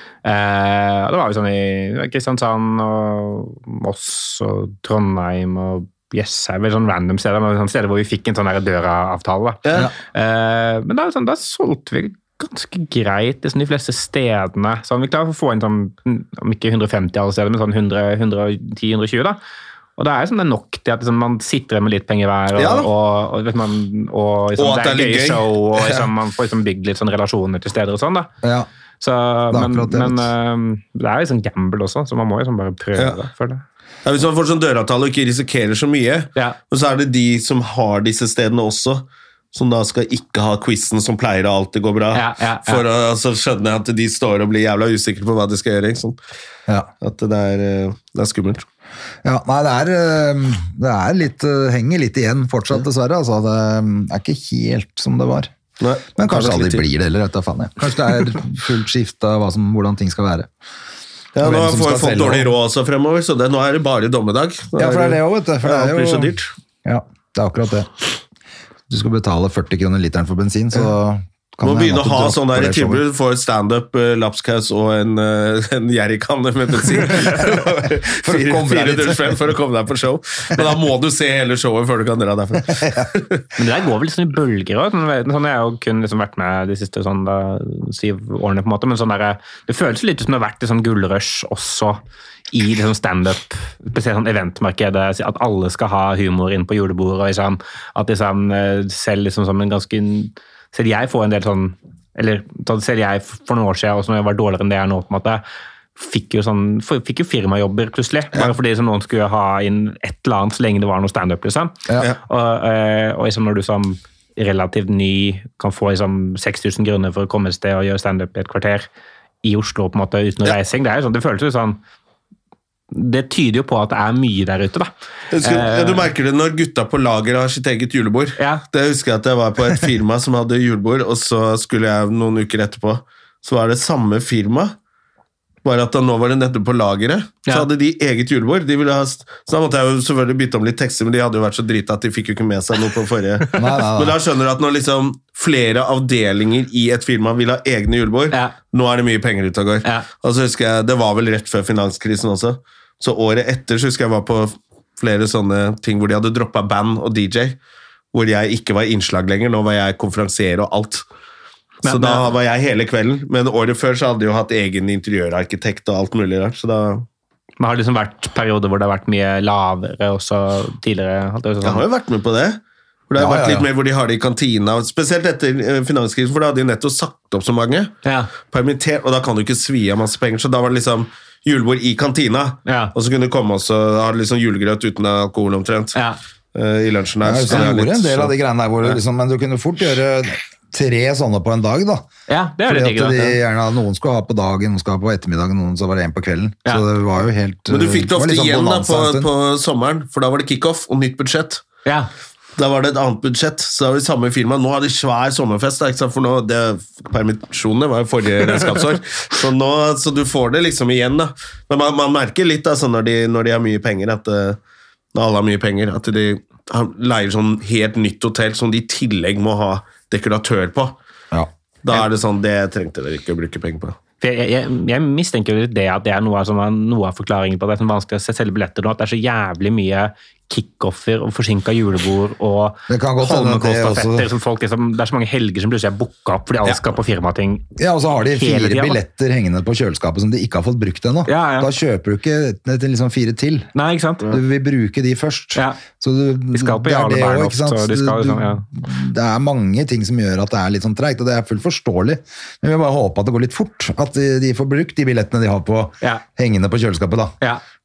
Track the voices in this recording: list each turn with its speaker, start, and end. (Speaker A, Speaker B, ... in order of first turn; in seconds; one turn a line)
Speaker A: 0.2-19.4
Speaker B: 9.6-9.9
Speaker A: 20.0-28.3
Speaker B: 22.5-22.9
Speaker B: 24.6-25.9
Speaker C: 28.4-28.7
Speaker A: 29.0-33.6
Speaker C: 29.5-30.3
Speaker B: 34.0-46.2
Speaker A: 42.1-42.8
Speaker B: 47.0-48.6
Speaker C: 49.2-55.5
Speaker B: 55.8-56.8
Speaker C: 56.1-60.5
Speaker B: 61.3-66.5
Speaker C: 61.4-62.5
Speaker C: 64.8-67.9
Speaker C: 68.9-73.0
Speaker B: 71.6-83.4
Speaker C: 78.2-79.4
Speaker C: 82.7-83.1
Speaker A: 83.5-92.0
Speaker A: 92.5-105.4
Speaker A: 106.0-118.9
Speaker A: 119.4-121.8
Speaker A: 122.9-124.9
Speaker B: 125.3-134.8
Speaker A: 125.4-126.1
Speaker A: 128.4-128.6
Speaker B: 135.6-157.6
Speaker C: 143.5-144.2
Speaker B: 158.1-161.0
Speaker A: 161.8-162.3
Speaker B: 161.8-167.1
Speaker A: 167.6-171.8
Speaker B: 171.6-186.0
Speaker C: 173.2-173.7
Speaker A: 178.0-178.3
Speaker A: 182.7-182.9
Speaker B: 186.5-188.3
Speaker C: 187.2-192.1
Speaker A: 192.3-193.4
Speaker C: 192.6-199.3
Speaker B: 197.7-201.6
Speaker B: 202.6-214.6
Speaker B: 215.1-220.9
Speaker B: 221.8-223.9
Speaker A: 224.2-237.7
Speaker C: 232.9-234.3
Speaker C: 237.8-243.7
Speaker A: 238.3-239.0
Speaker A: 241.2-241.7
Speaker A: 243.7-244.4
Speaker C: 244.3-257.4
Speaker A: 246.5-248.6